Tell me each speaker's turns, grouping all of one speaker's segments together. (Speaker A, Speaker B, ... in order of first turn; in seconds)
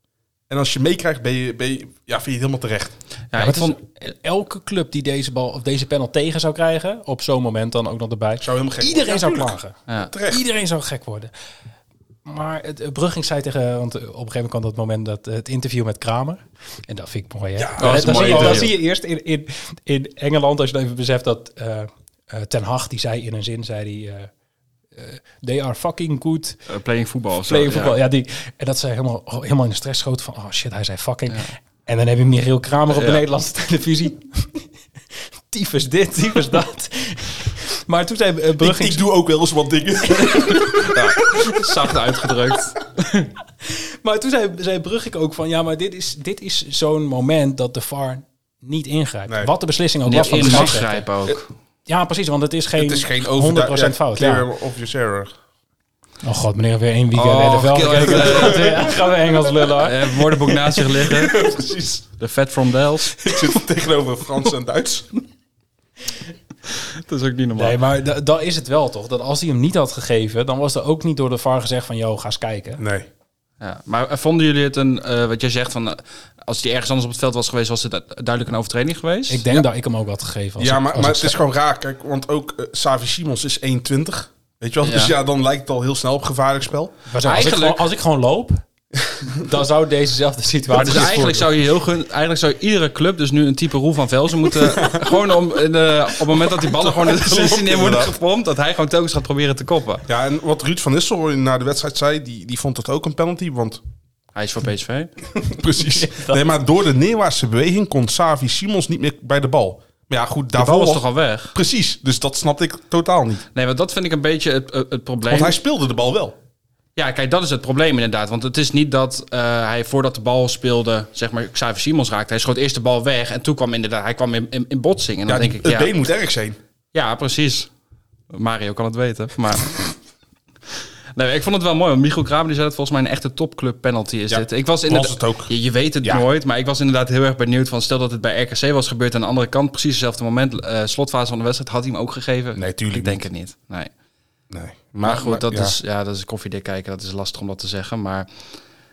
Speaker A: 0.5-3.0, 8.4-10.4, 17.6-18.7, 38.6-41.1, 50.4-50.8, 52.8-55.3, 58.1-58.8, 61.3-61.6, 63.2-65.1, 72.8-73.1, 80.6-86.9, 96.4-98.1, 100.1-103.8, 105.5-113.5, 115.2-116.4, 125.3-126.6, 134.3-136.2, 142.5-143.2, 144.5-145.8
Speaker B: 3.3-3.8, 17.8-18.8, 26.7-28.0, 32.9-33.2, 41.4-42.8, 50.0-51.5, 57.1-59.0, 59.8-61.4, 62.2-63.1, 66.8-67.8, 73.6-79.6, 84.8-85.1, 87.2-87.9, 90.7-100.0, 104.3-105.1, 110.5-111.5, 113.5-115.6, 117.0-125.9, 126.9-127.7, 128.3-129.9, 131.1-143.9, 145.0-148.3
Speaker C: 3.3-11.3, 12.2-24.3, 24.9-26.6, 27.4-34.7, 35.5-39.0, 40.2-40.7, 43.6-51.0, 51.9-54.5, 56.2-60.5, 61.3-62.0, 67.6-72.8, 79.3-81.4, 87.1-88.6, 89.3-91.5, 105.8-106.4